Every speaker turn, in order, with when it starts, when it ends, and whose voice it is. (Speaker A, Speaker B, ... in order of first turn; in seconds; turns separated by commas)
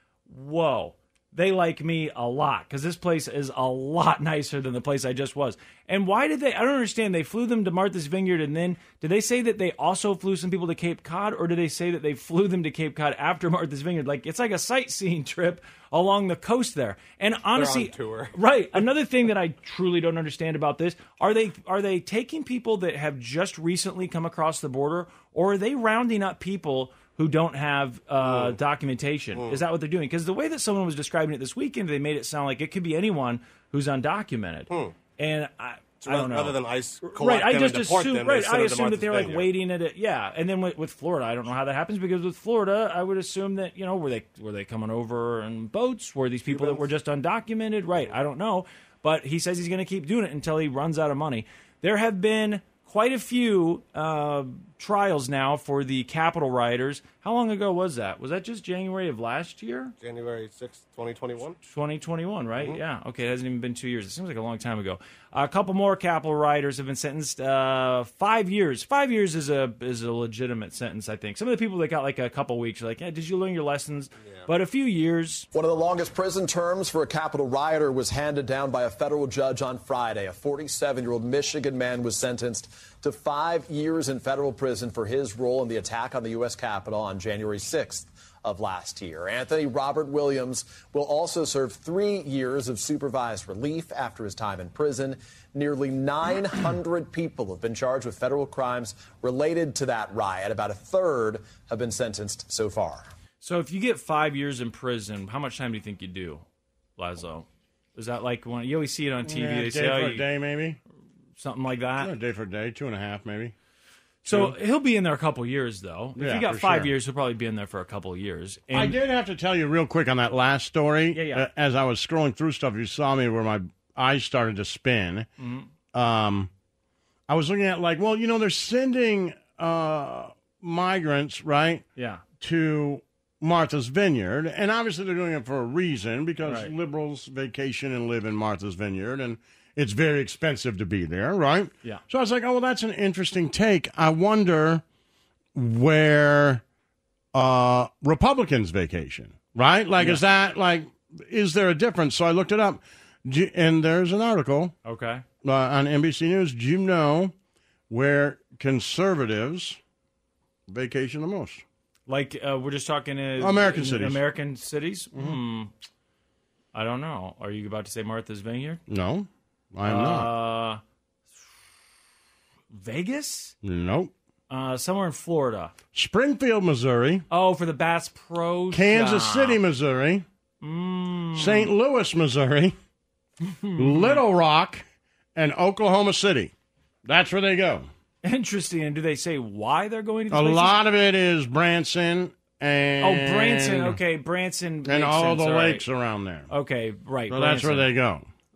Speaker A: 0.3-59.9, Speaker B: 17.5-18.3, Speaker B: 28.2-28.6, Speaker B: 29.3-29.6, Speaker B: 34.7-34.9, Speaker B: 36.0-39.5, Speaker B: 46.5-46.8, Speaker B: 60.0-61.6, Speaker A: 61.6-75.5, Speaker C: 75.5-103.1, Speaker A: 103.4-106.4, Speaker A: 107.0-110.3, Speaker D: 109.2-110.8, Speaker A: 111.4-112.1, Speaker D: 112.0-113.5, Speaker A: 114.2-119.0, Speaker D: 114.3-114.5, Speaker D: 116.2-116.9, Speaker D: 118.7-125.3, Speaker A: 121.1-121.4, Speaker A: 125.4-125.7, Speaker D: 125.9-126.5, Speaker D: 127.3-131.8, Speaker A: 131.9-132.2, Speaker D: 132.4-144.8, Speaker A: 136.4-136.7, Speaker D: 145.5-146.6, Speaker D: 147.3-154.7, Speaker A: 154.8-155.2, Speaker D: 155.4-157.3, Speaker D: 157.9-159.8, Speaker D: 160.7-161.6, Speaker A: 162.1-165.7, Speaker D: 163.4-164.2, Speaker A: 166.7-168.8, Speaker D: 168.9-170.4, Speaker A: 169.8-170.8, Speaker A: 172.7-173.5, Speaker D: 173.6-174.1, Speaker A: 174.5-175.7, Speaker D: 175.9-177.2, Speaker A: 177.3-179.6, Speaker D: 178.7-180.2, Speaker A: 180.6-181.7, Speaker D: 181.3-182.7, Speaker A: 183.4-184.2, Speaker D: 183.8-184.8, Speaker D: 185.3-186.5, Speaker D: 187.1-187.9, Speaker A: 188.2-190.8, Speaker D: 190.3-194.0, Speaker A: 193.0-195.8, Speaker D: 194.8-196.5, Speaker A: 196.5-197.9, Speaker D: 197.3-198.3